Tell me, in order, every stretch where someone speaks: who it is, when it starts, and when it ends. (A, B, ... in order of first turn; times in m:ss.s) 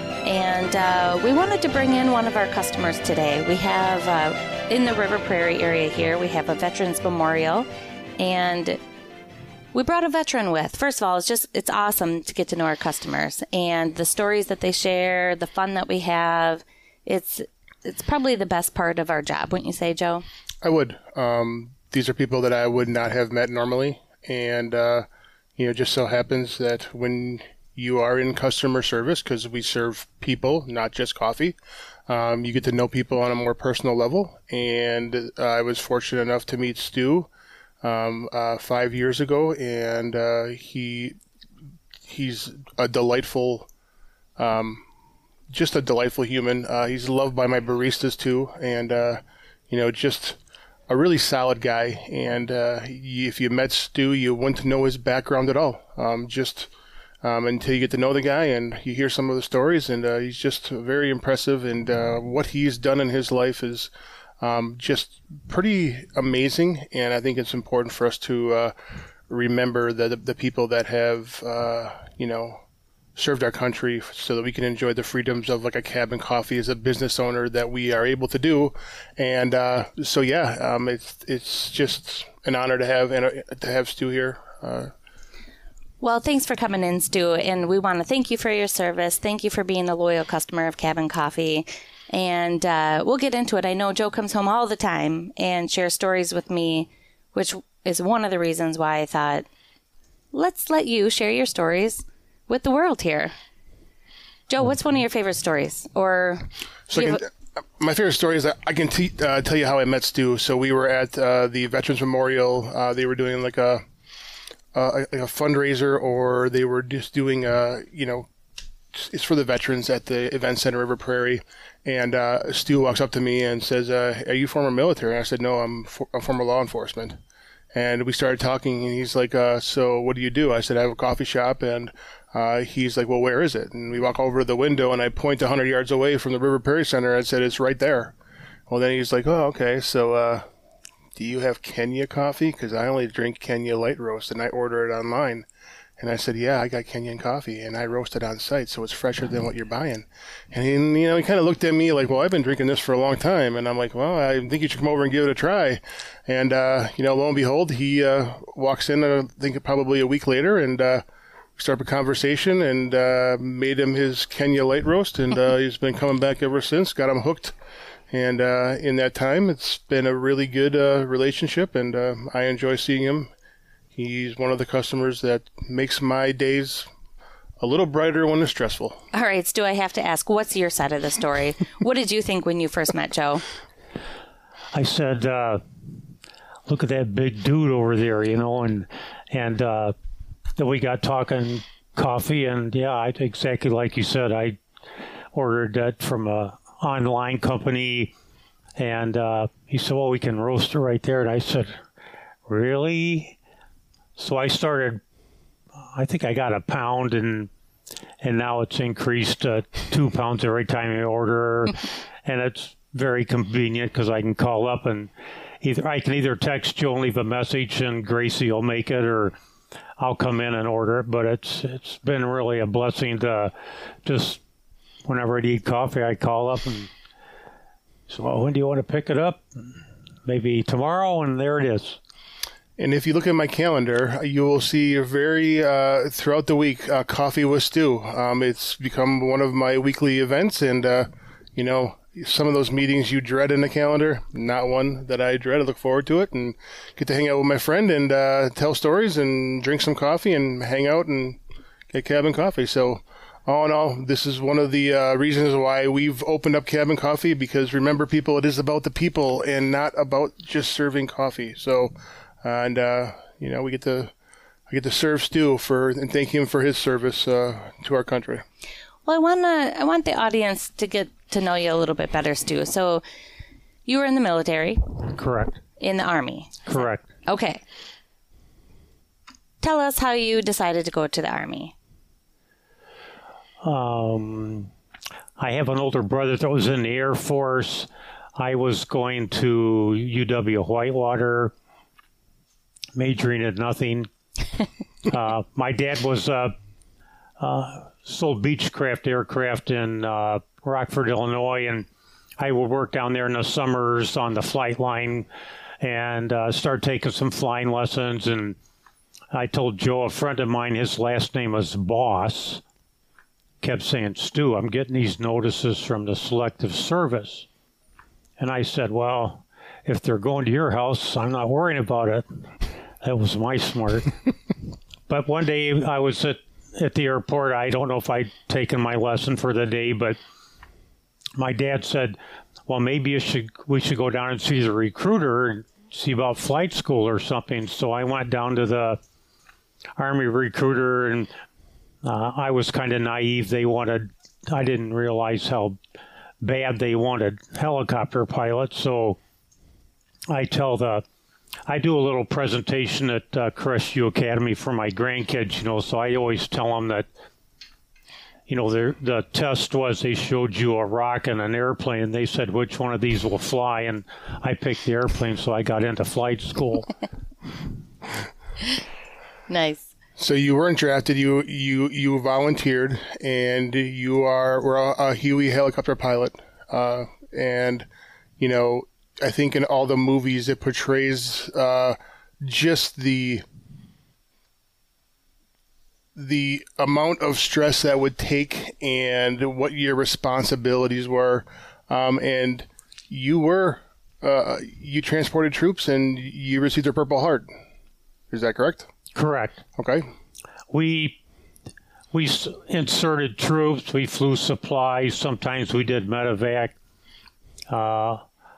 0:00.2-0:07.7 A
0:08.2-0:08.8 A
0:09.7-0:20.2 A
0:20.6-0:25.1 B
0:25.6-0:31.6 B
0:32.1-0:37.3 B
0:37.8-0:41.2 B
0:42.1-0:43.7 B
0:44.4-0:44.8 B
0:45.5-0:50.4 B
0:50.9-0:56.7 B
0:57.2-1:08.7 B
1:09.3-1:12.6 B
1:13.2-1:24.9 B
1:26.0-1:39.5 A
1:40.3-1:43.3 A
1:44.5-1:47.2 A
1:46.9-1:53.8 B
1:54.7-1:58.3 B
1:58.9-2:07.2 B
2:07.7-2:18.2 B
2:18.7-2:20.4 B
2:21.2-2:25.5 B
2:26.0-2:41.0 B
2:41.6-2:47.5 B
2:48.1-2:53.3 B
2:54.0-2:56.9 B
2:57.6-2:59.0 B
2:59.1-3:03.5 A
3:04.7-3:05.6 C
3:06.7-3:10.0 C
3:10.6-3:14.6 C
3:15.3-3:18.1 C
3:18.8-3:21.8 C
3:22.5-3:23.4 C
3:24.2-3:25.0 C
3:25.8-3:27.5 C
3:28.2-3:35.1 C
3:35.6-3:39.3 C
3:40.0-3:43.5 C
3:44.0-3:44.4 C
3:45.1-3:46.9 C
3:48.1-3:49.7 C
3:50.3-3:52.0 C
3:52.8-4:24.1 B
4:24.7-4:28.4 B
4:29.1-4:33.0 A
4:33.9-4:34.8 A
4:35.1-4:35.6 C
4:35.8-4:37.6 A
4:36.7-4:37.1 C
4:39.6-4:41.7 A
4:43.6-4:44.7 C
4:45.4-4:51.5 C
4:53.0-4:54.1 C
4:55.1-4:56.6 C
4:57.4-5:01.9 C
5:02.4-5:05.3 C
5:05.8-5:08.6 C
5:09.3-5:12.6 C
5:13.6-5:17.5 C
5:18.4-5:22.4 C
5:23.0-5:24.2 C
5:25.1-5:30.2 C
5:31.4-5:39.0 C
5:40.0-5:41.3 C
5:42.0-5:45.8 C
5:46.4-5:49.2 C
5:50.3-5:51.0 C
5:51.7-5:57.1 C
5:58.5-6:06.9 C
6:09.5-6:09.9 A
6:10.2-6:17.9 B
6:18.4-6:23.4 B
6:26.2-6:37.5 B
6:38.3-6:38.9 B
6:39.2-6:39.6 C
6:39.8-6:40.0 B
6:40.7-6:41.2 C
6:42.1-6:46.8 C
6:47.7-6:48.2 C